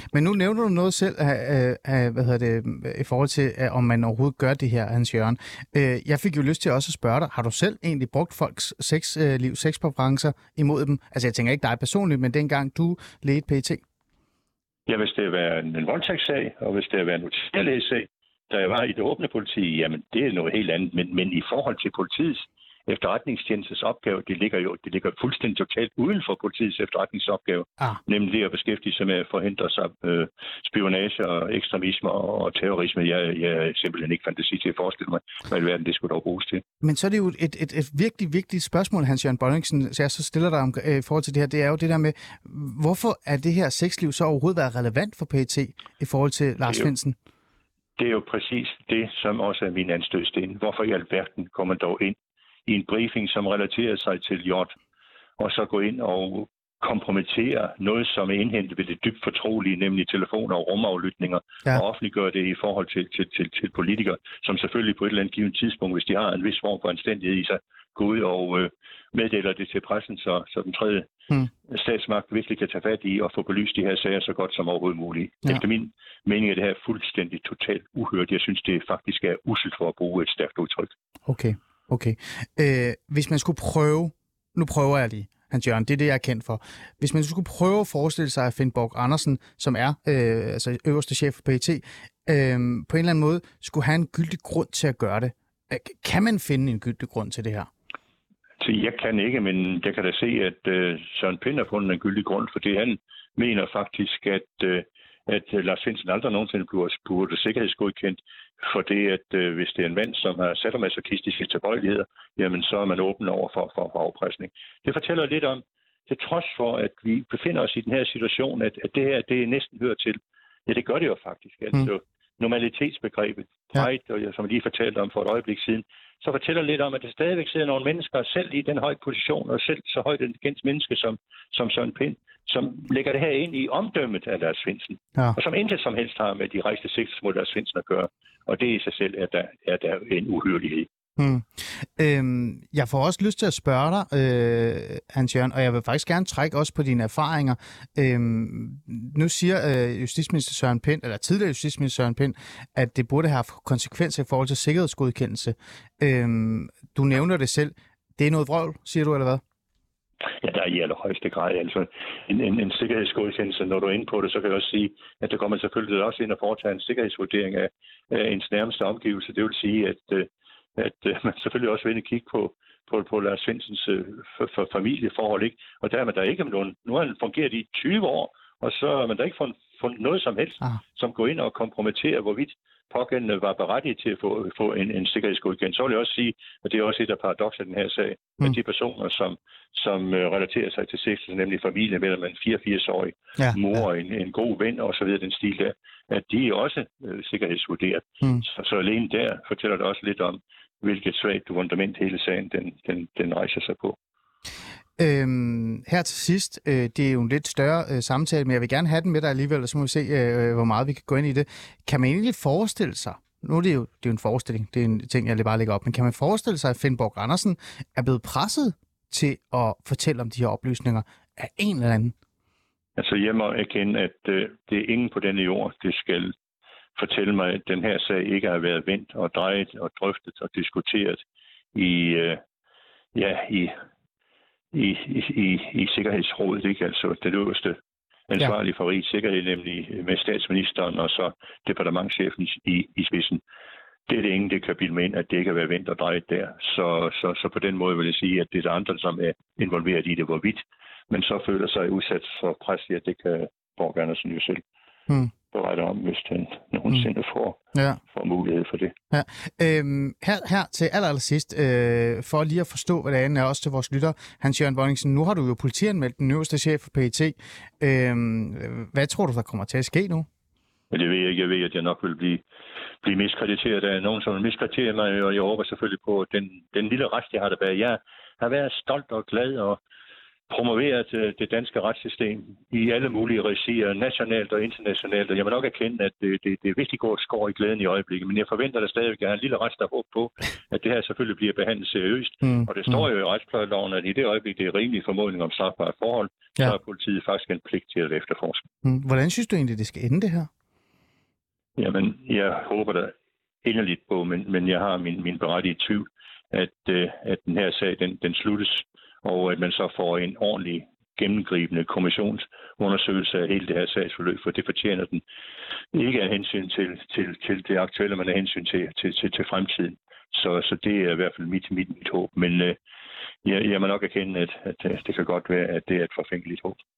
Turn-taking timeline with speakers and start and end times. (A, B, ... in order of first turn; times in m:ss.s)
0:00.1-0:13.8 A
0:14.9-0:36.6 B
0:36.8-0:47.2 A
0:48.0-0:54.7 B
0:55.4-1:11.1 B
1:11.7-1:20.9 B
1:21.3-1:37.7 A
1:38.6-2:20.9 B
2:21.2-2:39.4 A
2:40.4-3:24.0 B
3:13.4-3:13.8 A
3:25.0-3:42.1 A
3:43.0-3:46.3 B
3:47.0-3:51.2 B
3:51.7-3:52.4 B
3:53.1-3:53.8 B
3:54.7-3:57.8 B
3:58.3-4:03.4 B
4:04.1-4:14.6 B
4:15.5-4:17.6 B
4:18.1-4:18.9 B
4:19.1-4:30.3 A
4:30.9-4:32.4 B
4:33.0-4:39.8 B
4:40.5-4:58.6 B
4:52.4-4:53.0 A
4:58.8-5:00.5 A
5:01.8-5:03.1 B
5:03.6-5:15.2 B
5:15.9-5:22.8 B
5:23.4-5:26.8 B